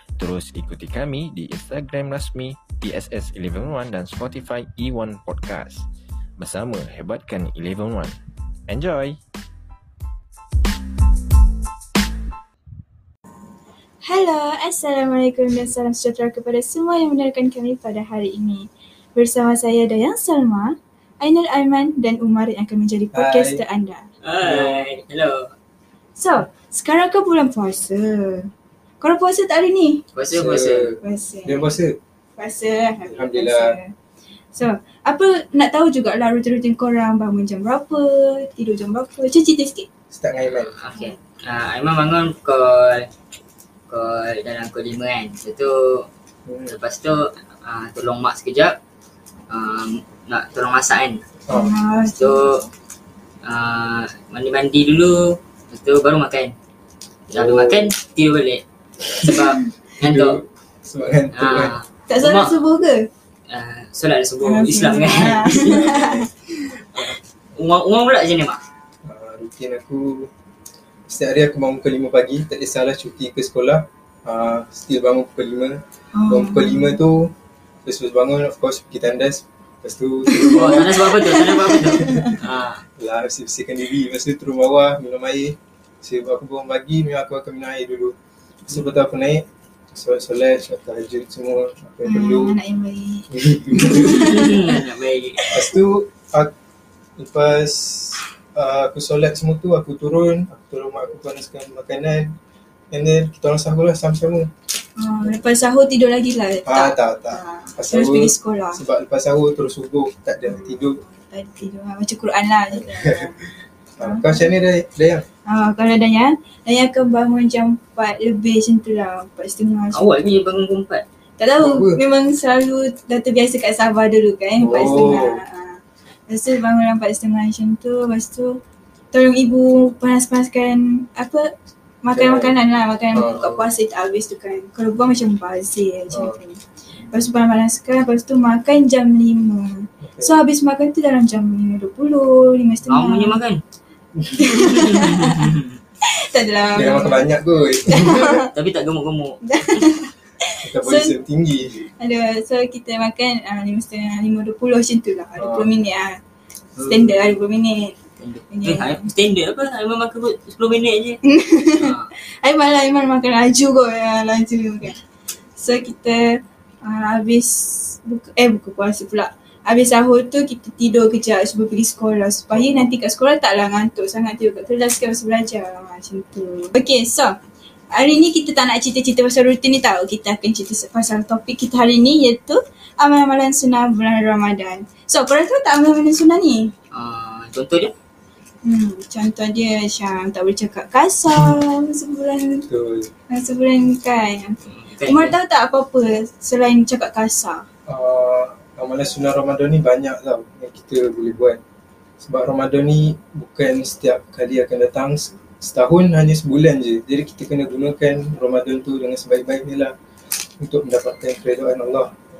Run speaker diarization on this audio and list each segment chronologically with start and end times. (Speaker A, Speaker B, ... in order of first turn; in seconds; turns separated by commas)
Speaker A: 0.2-8.2, Speaker A: 8.7-9.2, Speaker B: 14.0-24.1, Speaker C: 23.1-23.6, Speaker D: 24.2-25.5, Speaker C: 24.4-24.9, Speaker B: 26.2-28.5, Speaker B: 29.0-30.0, Speaker D: 30.1-31.0, Speaker C: 30.3-31.9, Speaker B: 31.0-31.7, Speaker B: 32.4-33.9, Speaker C: 33.1-33.8, Speaker B: 34.5-39.9, Speaker C: 40.1-40.7, Speaker D: 40.5-43.1, Speaker D: 43.9-46.1, Speaker C: 46.5-46.8, Speaker D: 46.7-48.8, Speaker D: 49.5-51.2, Speaker C: 51.5-51.7, Speaker B: 51.5-52.5, Speaker D: 52.1-52.6, Speaker D: 53.4-56.5, Speaker D: 57.3-58.6, Speaker C: 57.3-57.9, Speaker D: 59.2-60.4, Speaker B: 59.3-59.7, Speaker C: 60.0-61.7, Speaker D: 61.4-62.6, Speaker B: 62.1-63.0, Speaker D: 63.5-66.2, Speaker B: 64.4-66.3, Speaker C: 65.8-66.1, Speaker D: 66.9-68.6, Speaker C: 69.0-70.3, Speaker C: 71.1-77.3, Speaker B: 76.1-77.0, Speaker C: 77.8-80.9, Speaker B: 80.3-82.3, Speaker D: 80.5-82.8, Speaker C: 81.7-82.3, Speaker C: 83.0-88.1, Speaker C: 88.7-92.5, Speaker D: 88.7-89.0, Speaker B: 92.0-94.7, Speaker C: 93.3-94.3, Speaker D: 94.1-95.4, Speaker C: 95.5-96.5, Speaker C: 97.2-102.3, Speaker C: 102.9-104.5, Speaker B: 105.0-108.8, Speaker C: 106.7-111.0, Speaker B: 110.5-113.5, Speaker C: 112.7-113.3, Speaker C: 114.0-115.2, Speaker B: 114.0-114.5, Speaker B: 115.5-120.0, Speaker D: 119.9-121.0, Speaker B: 121.4-128.6, Speaker C: 121.6-122.0, Speaker C: 124.6-125.4, Speaker B: 129.1-131.5, Speaker B: 132.0-136.6, Speaker C: 132.1-132.6, Speaker C: 133.1-133.5, Speaker D: 133.2-133.6, Speaker C: 136.1-136.4, Speaker B: 137.1-143.4, Speaker C: 140.0-140.3, Speaker D: 142.9-143.6, Speaker C: 144.2-144.5, Speaker B: 144.4-145.4, Speaker D: 144.6-145.8, Speaker B: 146.0-147.3, Speaker C: 146.8-148.4, Speaker B: 147.8-148.5, Speaker D: 148.5-149.8, Speaker B: 149.4-151.1, Speaker C: 150.6-151.8, Speaker B: 152.0-156.2, Speaker C: 155.4-155.7, Speaker D: 156.8-157.2, Speaker B: 156.9-157.9, Speaker D: 158.2-161.2, Speaker B: 158.5-159.1, Speaker B: 161.2-165.0, Speaker D: 161.8-162.1, Speaker B: 165.6-166.3, Speaker B: 166.8-177.3, Speaker C: 172.5-172.9, Speaker B: 177.9-186.7, Speaker D: 186.9-187.9, Speaker B: 188.6-192.7, Speaker C: 191.3-191.6, Speaker C: 192.7-193.1, Speaker B: 193.3-197.6, Speaker D: 194.7-195.3, Speaker C: 197.9-201.6, Speaker C: 202.2-209.9, Speaker C: 210.6-212.1